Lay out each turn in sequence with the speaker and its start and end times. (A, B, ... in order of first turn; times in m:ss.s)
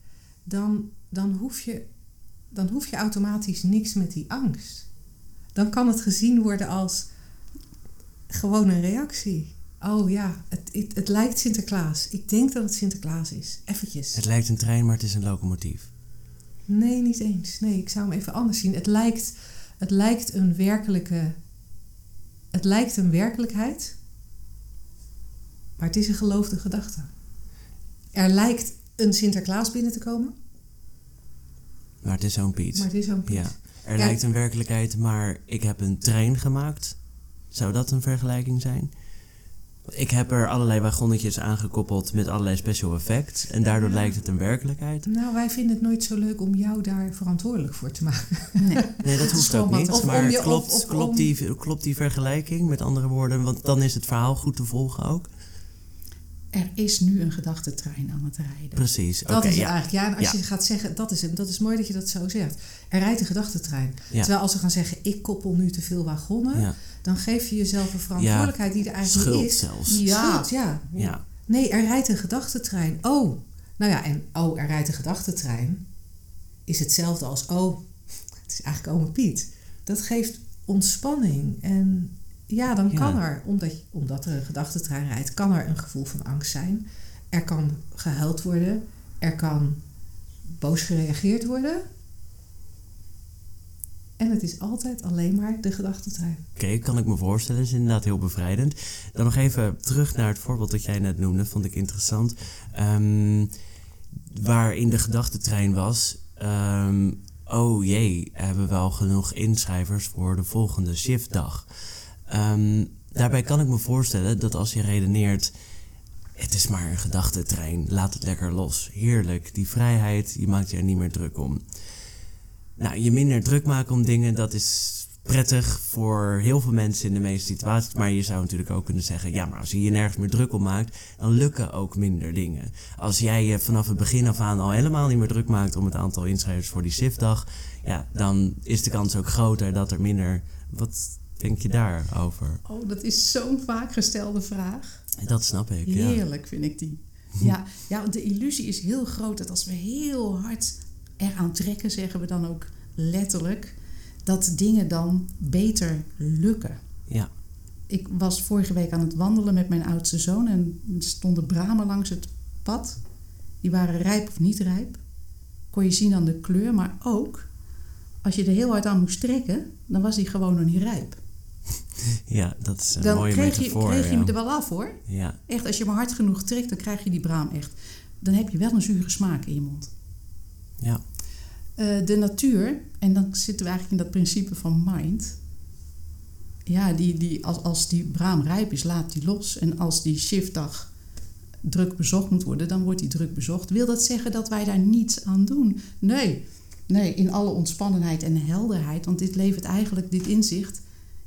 0:00.4-0:01.8 A
0:02.5-0:04.9 A
0:05.5-0:07.1 A
0:08.3-0:14.2 A
0:14.1-0:15.9 B
0:16.7-0:21.4 A
0:22.5-0:24.0 A
0:25.8-0:27.1 A
0:28.1-0:30.3 A
0:32.0-0:37.0 B
0:32.7-0:34.2 A
0:37.5-0:38.9 B
0:39.9-0:45.1 B
0:43.7-0:44.2 A
0:45.0-0:51.3 A
0:48.6-0:50.4 C
0:49.0-0:55.3 B
0:56.5-0:58.8 C
0:58.7-1:00.4 B
0:59.3-1:15.8 A
1:08.2-1:10.0 B
1:09.9-1:10.5 C
1:11.0-1:11.2 B
1:16.6-1:17.9 A
1:18.4-1:29.8 A
1:22.9-1:23.2 B
1:30.6-1:31.8 A
1:34.2-1:36.4 A
1:36.6-1:43.5 B
1:44.3-1:55.5 B
1:56.4-2:01.6 B
2:02.8-2:22.6 B
2:22.6-2:25.0 C
2:25.2-2:26.2 B
2:25.8-2:36.8 C
2:37.9-2:43.0 C
2:43.6-2:45.0 C
2:45.7-2:47.5 C
2:48.2-2:51.2 C
2:52.3-2:54.3 B
2:53.0-2:59.9 C
2:55.1-2:55.4 B
3:00.8-3:01.0 B
3:01.8-3:05.4 C
3:06.6-3:10.9 C
3:11.6-3:20.8 C